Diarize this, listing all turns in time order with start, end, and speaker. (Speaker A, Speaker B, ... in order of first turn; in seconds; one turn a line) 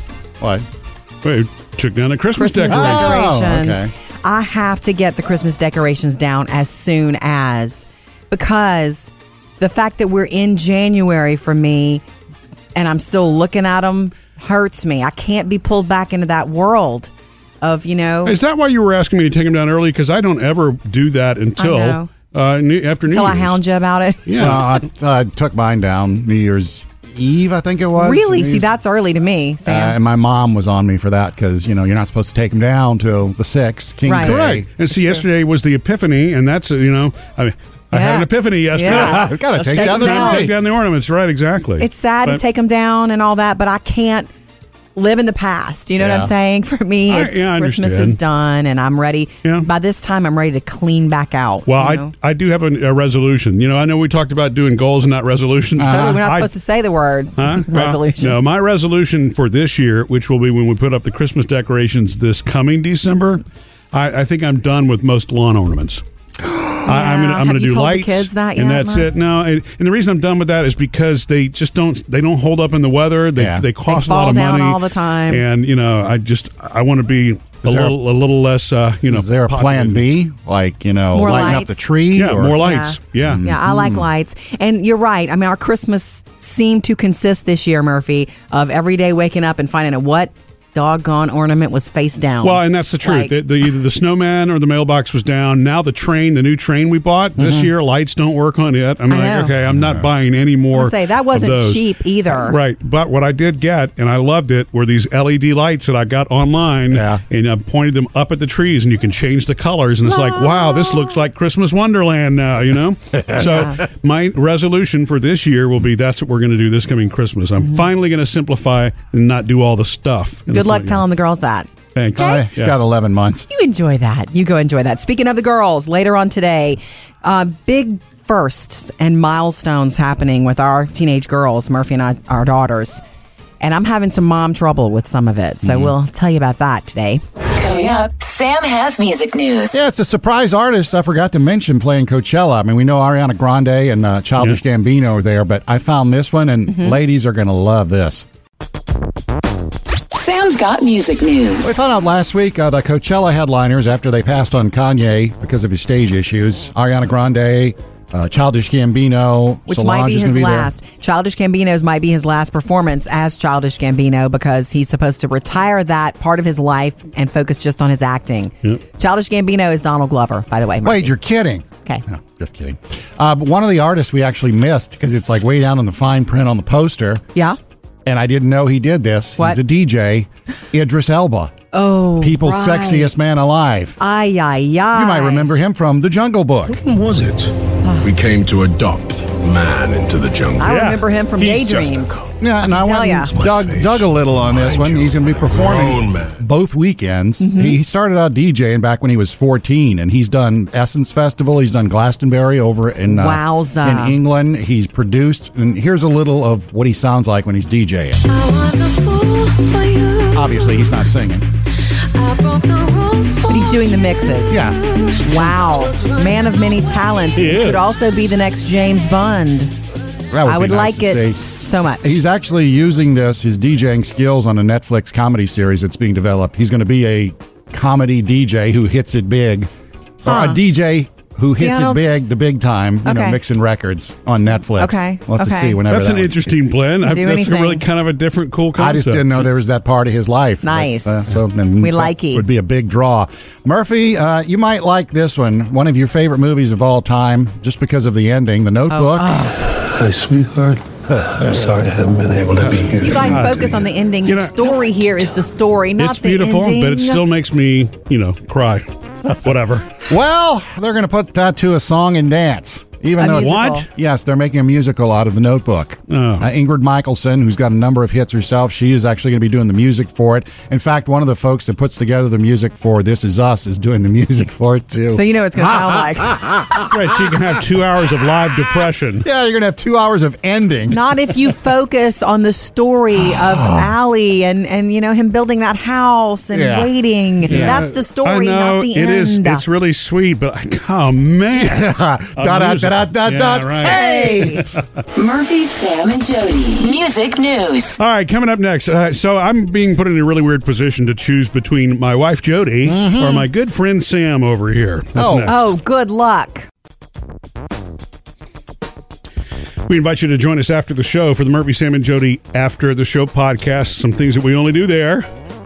Speaker A: 1.2-3.3
Speaker B: 2.3-12.0
Speaker C: 2.7-3.9
Speaker B: 12.7-17.1
Speaker B: 17.6-18.4
Speaker A: 18.2-23.6
Speaker B: 21.6-22.1
Speaker B: 23.1-24.6
Speaker A: 24.3-24.6
Speaker C: 24.4-28.7
Speaker B: 28.0-30.0
Speaker C: 29.6-35.2
Speaker B: 34.0-34.4
Speaker A: 34.2-42.4
Speaker B: 37.9-40.5
Speaker C: 38.8-40.5
Speaker B: 41.8-44.3
Speaker B: 45.0-52.1
Speaker C: 46.0-46.3
Speaker A: 47.1-48.2
Speaker A: 51.7-56.5
Speaker C: 55.8-56.2
Speaker B: 55.8-58.4
Speaker A: 57.4-66.0
Speaker B: 66.8-69.1
Speaker A: 66.8-80.0
Speaker C: 73.3-73.6
Speaker B: 73.9-75.4
Speaker C: 77.6-78.0
Speaker C: 79.1-82.7
Speaker B: 81.1-81.8
Speaker A: 82.1-83.4
Speaker B: 82.6-93.3
Speaker C: 83.2-84.1
Speaker A: 92.4-121.0
Speaker C: 97.4-97.7
Speaker B: 99.1-99.5
Speaker C: 99.7-100.1
Speaker B: 100.7-102.6
Speaker C: 106.9-107.2
Speaker B: 110.1-111.2
Speaker B: 113.4-113.8
Speaker B: 120.5-122.5
Speaker A: 121.9-122.7
Speaker C: 122.1-123.5
Speaker B: 123.5-133.0
Speaker B: 133.6-137.2
Speaker C: 135.6-135.9
Speaker D: 137.5-139.8
Speaker C: 139.7-148.2
Speaker B: 146.7-146.9
Speaker D: 150.1-151.7
Speaker C: 151.6-160.7
Speaker B: 159.7-171.1
Speaker C: 170.8-177.2
Speaker C: 178.1-181.5
Speaker B: 181.7-183.2
Speaker C: 182.2-184.0
Speaker B: 184.0-185.5
Speaker C: 184.9-186.8
Speaker E: 186.7-192.2
Speaker B: 187.8-188.1
Speaker B: 190.6-192.2
Speaker A: 190.6-191.9
Speaker C: 192.4-208.2
Speaker B: 192.8-193.3
Speaker E: 193.3-196.4
Speaker B: 197.4-197.8
Speaker B: 203.1-204.2
Speaker F: 208.3-210.7
Speaker C: 210.3-211.5
Speaker F: 212.2-214.4
Speaker B: 213.5-214.6
Speaker C: 214.5-214.8
Speaker B: 215.2-219.7
Speaker F: 215.7-216.5
Speaker A: 217.3-217.8
Speaker C: 220.3-221.4
Speaker B: 220.4-222.2
Speaker C: 222.0-229.7
Speaker C: 230.2-236.3
Speaker B: 230.2-230.6
Speaker B: 231.5-232.3
Speaker B: 233.0-233.4
Speaker B: 234.8-235.8
Speaker A: 235.9-239.3
Speaker B: 237.0-237.8
Speaker C: 238.8-249.4
Speaker B: 240.6-242.4
Speaker B: 248.9-249.7
Speaker G: 249.7-253.7
Speaker C: 251.1-251.4
Speaker A: 252.9-254.8
Speaker B: 253.0-257.2
Speaker A: 256.0-260.0
Speaker C: 260.0-276.8
Speaker B: 263.2-263.9
Speaker A: 263.3-263.9
Speaker A: 266.1-266.5
Speaker B: 275.1-276.8
Speaker A: 276.8-279.3
Speaker C: 279.2-281.0
Speaker B: 280.9-289.6
Speaker C: 283.3-283.9
Speaker C: 286.5-286.9
Speaker C: 287.5-287.7
Speaker A: 287.5-294.8
Speaker C: 291.5-294.7
Speaker B: 293.9-294.6
Speaker D: 295.1-298.0
Speaker A: 298.0-305.7
Speaker C: 302.8-303.5
Speaker C: 305.1-305.5
Speaker B: 305.4-306.7
Speaker A: 309.9-315.3